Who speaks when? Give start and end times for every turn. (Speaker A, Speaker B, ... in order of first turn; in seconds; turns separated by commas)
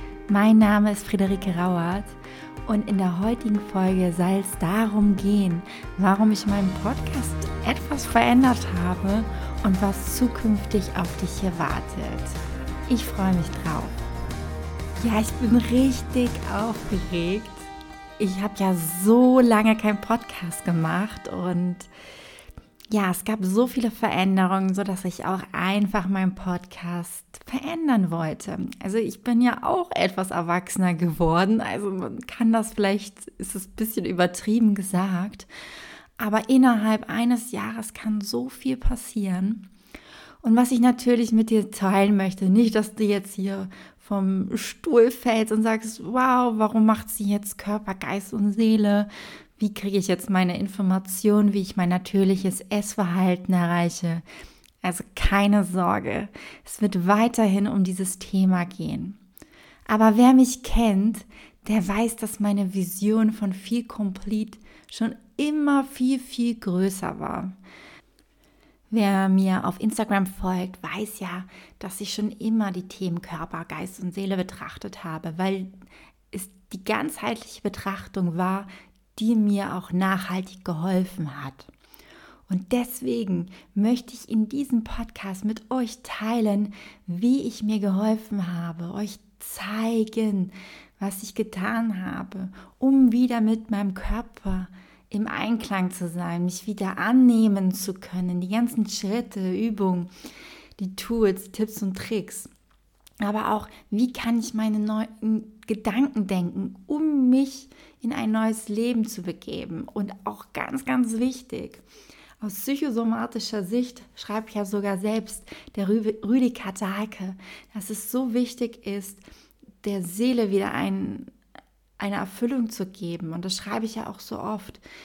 Speaker A: 0.3-14.0, Speaker A: 15.0-21.9, Speaker A: 22.9-35.5, Speaker A: 36.2-39.7, Speaker A: 40.4-54.2, Speaker A: 54.8-59.2, Speaker A: 59.9-67.5, Speaker A: 68.9-75.7, Speaker A: 76.3-81.7, Speaker A: 82.5-100.1, Speaker A: 100.8-102.5, Speaker A: 103.2-111.8, Speaker A: 112.4-119.2, Speaker A: 119.8-121.3, Speaker A: 122.0-124.8